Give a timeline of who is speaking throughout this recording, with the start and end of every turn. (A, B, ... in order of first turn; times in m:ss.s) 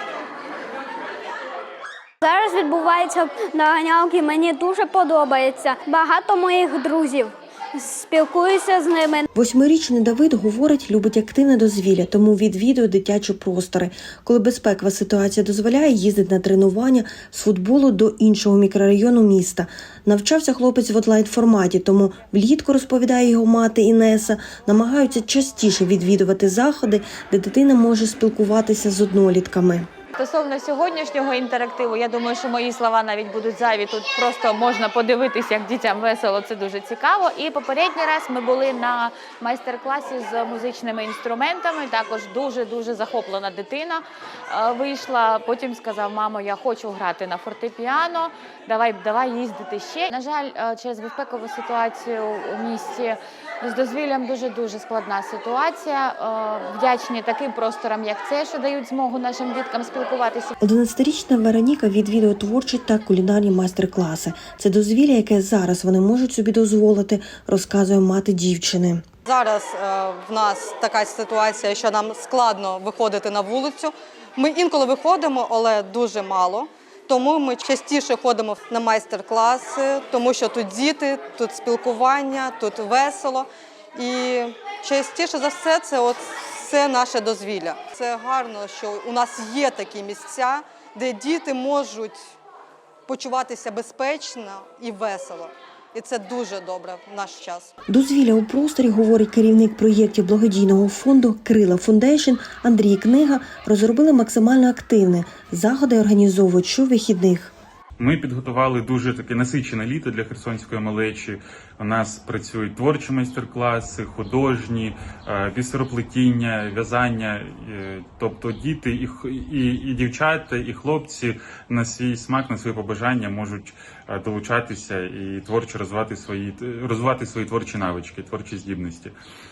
0:02.2-0:09.2 A
0:09.3-0:29.9 B
0:30.1-1:00.5 C
1:00.6-1:09.0 B
1:09.2-1:32.2 D
1:33.1-1:37.7 D
1:37.9-1:47.5 B
1:48.0-2:09.1 E